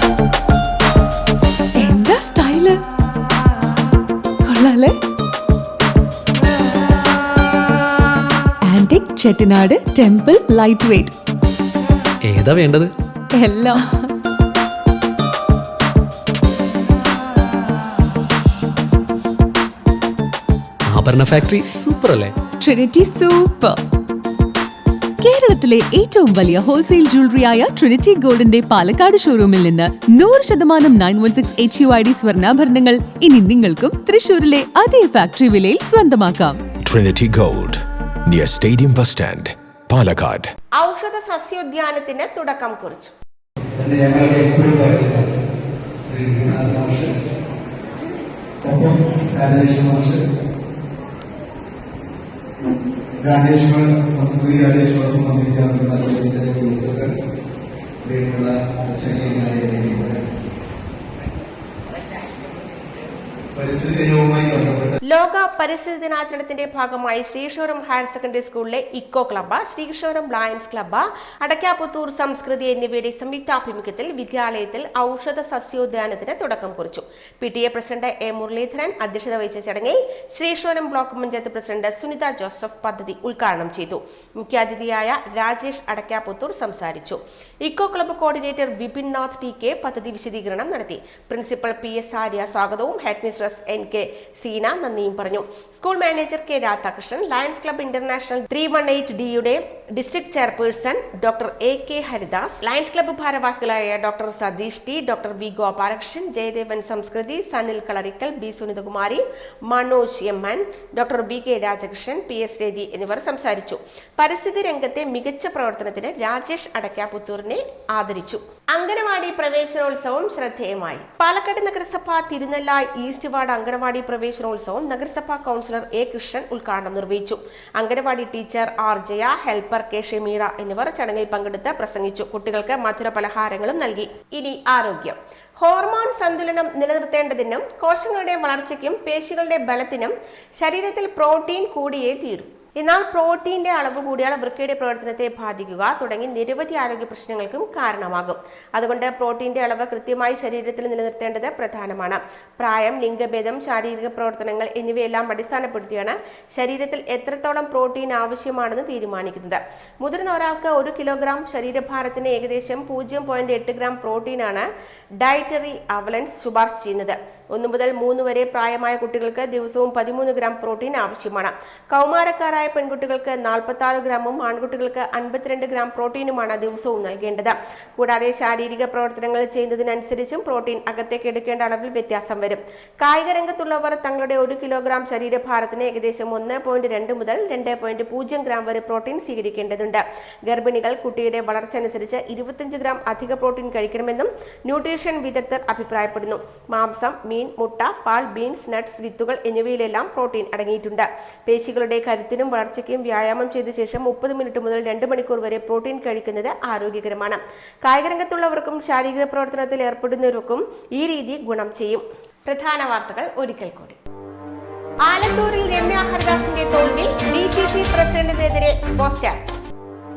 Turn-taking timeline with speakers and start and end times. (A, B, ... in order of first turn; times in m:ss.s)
0:01.8-0:02.8 A
0:04.4-0:04.9 A
0:08.7-0:11.1 A
0:12.2-0:12.9 B
0:13.4-0:13.9 A
0:20.9-0:22.3 B
0:22.6-0:23.8 A
0:25.2-0:36.6 A
0:36.8-0:40.5 C
0:40.8-0:43.1 D
0:43.8-0:45.2 E
0:46.0-0:47.1 E
0:48.6-0:50.2 E
0:53.2-0:57.1 E
0:58.0-1:00.2 E
1:03.5-1:05.0 E
1:05.1-2:44.6 D
2:45.2-3:34.0 D
3:35.0-3:39.4 D